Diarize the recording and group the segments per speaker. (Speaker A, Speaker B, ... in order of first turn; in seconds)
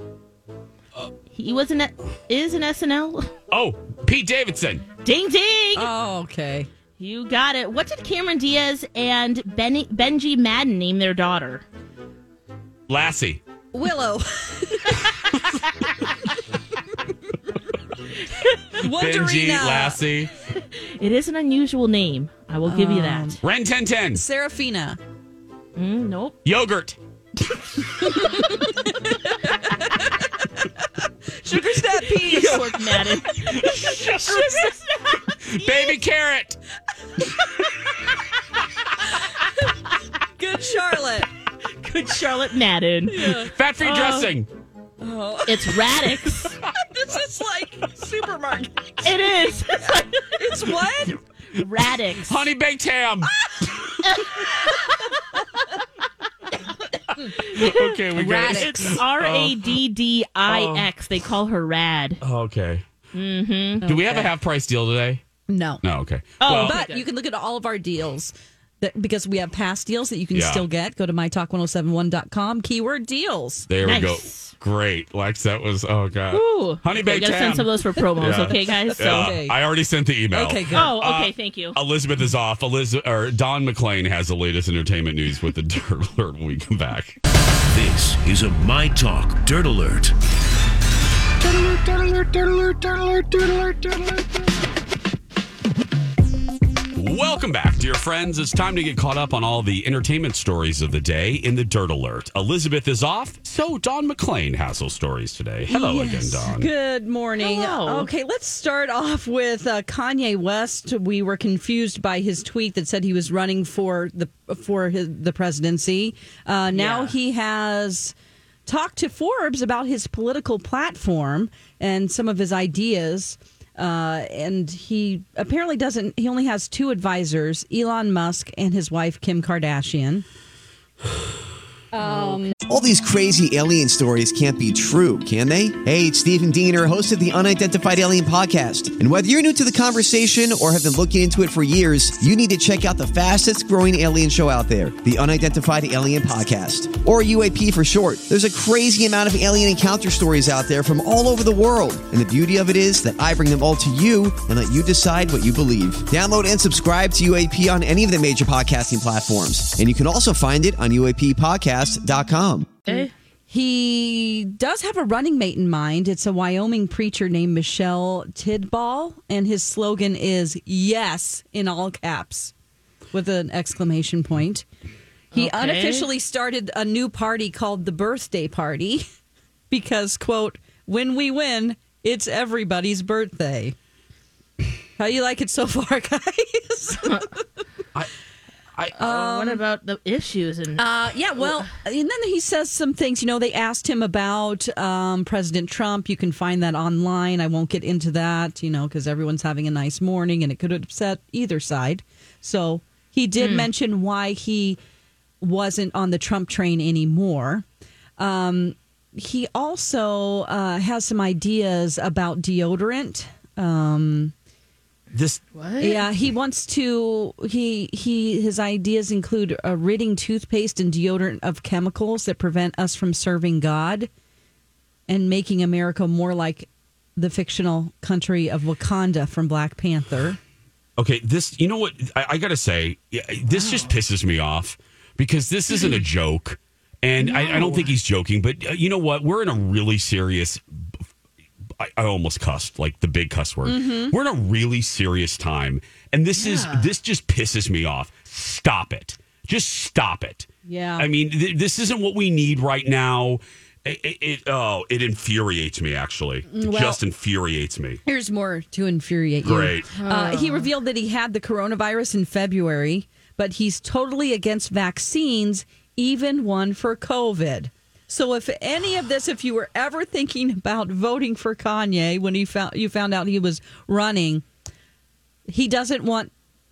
Speaker A: 1.3-3.3, 5.0-5.9, 7.0-11.6, 18.3-18.6, 20.6-23.4, 25.8-26.4, 32.1-36.0, 41.8-43.3, 43.8-44.3, 45.5-46.6, 49.0-50.3, 51.5-52.4, 54.0-55.0, 57.3-62.2, 63.1-63.8, 66.4-67.0, 73.8-74.5, 76.3-79.4, 80.7-81.8, 107.4-108.1, 116.7-117.1, 132.0-132.5, 162.9-163.1, 175.3-176.1, 189.0-191.6, 203.4-203.7, 215.5-216.1, 233.5-233.9, 237.2-237.9, 246.3-246.9, 260.1-260.7
Speaker B: 3.5-4.8, 12.9-13.4, 18.8-20.3, 23.4-24.2, 26.4-27.0, 33.5-34.5, 35.5-36.6, 43.2-44.5, 52.2-53.3, 57.4-59.8, 60.5-60.9, 62.2-62.8, 63.8-65.2, 65.8-66.8, 70.3-70.7, 73.7-87.2, 91.5-94.0, 96.9-106.7, 215.1-215.4, 231.0-240.6, 241.8-258.0, 259.4-260.0
Speaker C: 5.8-6.7, 13.7-15.2, 18.7-20.0, 22.6-23.4, 24.1-25.0, 28.0-30.6, 31.3-34.8, 40.4-41.3, 43.1-43.5, 45.0-49.2, 49.8-51.2, 53.2-53.7, 58.1-59.0, 63.8-64.3, 65.5-65.8, 66.5-73.7, 78.2-79.6, 80.3-80.9, 105.7-118.1, 118.7-130.2, 131.9-132.6, 162.9-172.5, 173.1-174.7, 175.3-179.0, 179.7-183.8, 185.0-187.4, 189.0-189.6, 190.8-204.8, 205.4-207.6, 208.2-214.3, 215.8-224.1, 225.1-230.4, 243.6-244.1, 250.6-251.1, 256.5-257.0, 258.0-274.4, 275.5-276.3
Speaker D: 87.7-90.1
Speaker E: 132.7-162.8